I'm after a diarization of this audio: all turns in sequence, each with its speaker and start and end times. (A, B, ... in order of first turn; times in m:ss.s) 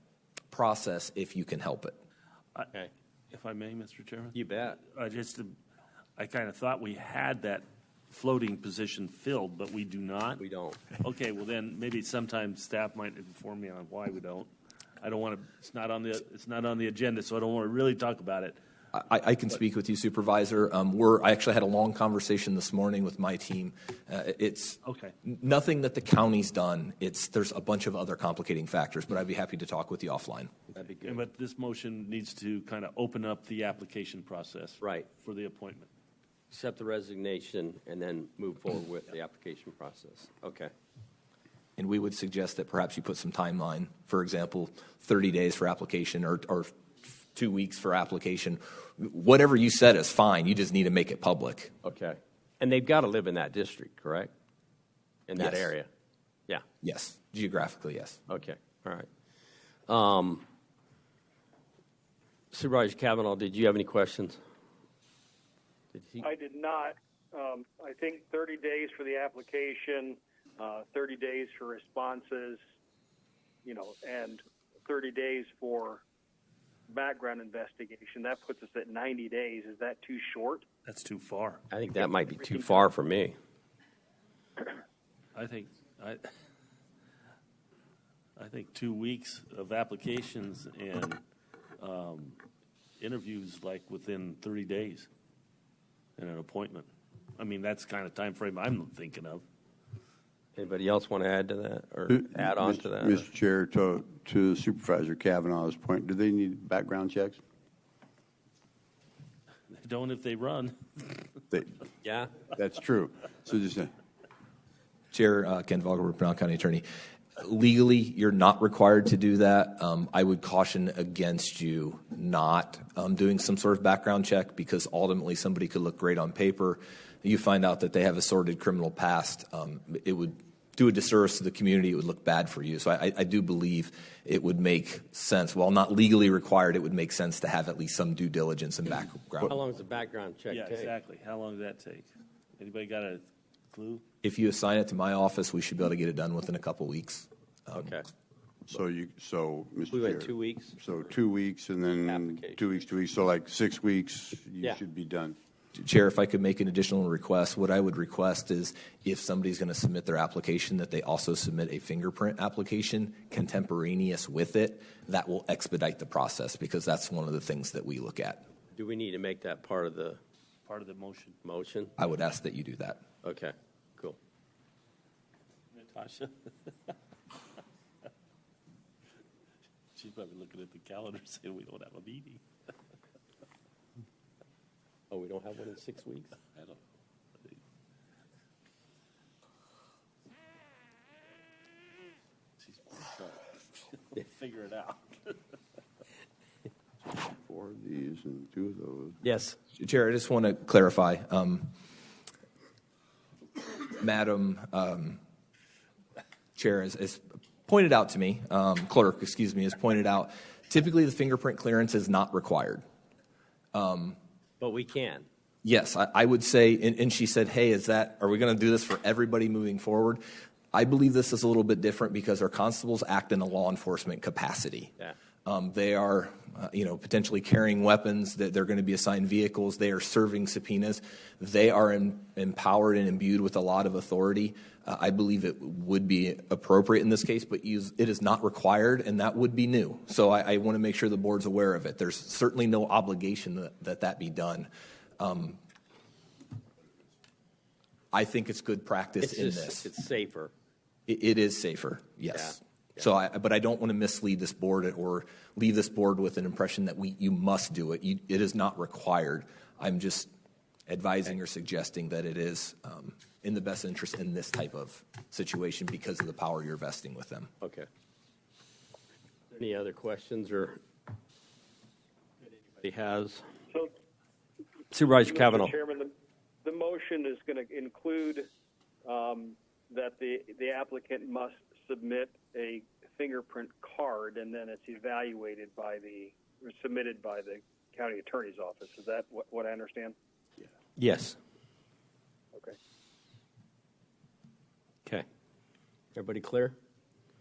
0:00.5-0:01.9 A
0:03.3-0:05.5 B
0:04.3-0:04.8 C
0:06.2-0:10.4 B
0:10.4-0:10.9 C
0:11.0-0:18.6 B
0:18.9-0:30.5 A
0:24.8-0:25.1 B
0:30.7-0:31.2 C
0:31.0-0:35.9 B
0:34.8-0:35.1 C
0:36.5-0:40.7 C
0:41.8-0:51.7 A
0:51.8-0:54.3 C
0:55.3-0:55.9 C
0:55.4-0:55.7 A
0:56.8-0:58.2 A
0:58.3-0:59.1 C
0:59.9-1:00.4 C
1:02.5-1:04.4 C
1:05.9-1:06.3 C
1:06.2-1:12.6 D
1:13.6-1:16.0 D
1:16.9-1:20.6 D
1:20.8-1:21.6 B
1:21.7-1:23.4 C
1:25.3-1:26.2 B
1:28.4-1:31.2 B
1:31.8-1:32.4 B
1:33.0-1:35.1 B
1:36.2-1:39.4 B
1:40.5-1:43.2 C
1:42.1-1:47.4 E
1:49.7-1:51.2 B
1:51.5-1:51.8 E
1:52.0-1:52.4 C
1:52.4-1:53.9 E
1:55.1-1:56.8 A
1:57.4-2:19.6 A
2:19.4-2:20.9 C
2:20.5-2:24.0 B
2:24.2-2:27.9 A
2:27.8-2:28.0 C
2:28.7-2:35.4 E
2:29.9-2:30.8 C
2:32.0-2:32.6 C
2:35.7-2:48.4 A
2:48.7-2:50.2 C
2:50.6-2:51.4 B
2:51.4-2:51.9 C
2:52.0-2:53.0 A
2:53.2-2:54.2 C
2:55.8-2:56.5 B
2:59.9-3:02.4 B
3:05.1-3:06.4 C
3:06.4-3:06.8 B
3:12.6-3:15.4 B
3:17.0-3:19.2 E
3:19.2-3:19.6 C
3:19.7-3:21.7 A
3:23.9-3:25.2 A
3:26.6-3:32.8 A
3:33.7-3:34.2 A
3:34.6-3:35.3 C
3:35.6-3:40.2 A
3:40.7-3:44.9 A
3:45.4-4:05.6 A
4:08.1-4:09.9 A
4:09.2-4:10.5 C
4:11.1-4:20.3 A
4:12.3-4:13.1 C
4:20.9-4:27.5 A
4:27.6-4:27.9 C
4:29.5-4:30.8 C
4:32.8-4:33.5 C
4:34.9-4:35.7 C
4:35.1-4:36.1 D
4:36.6-4:38.5 D
4:39.0-4:50.1 D
4:51.0-4:51.4 C
4:56.1-4:56.8 C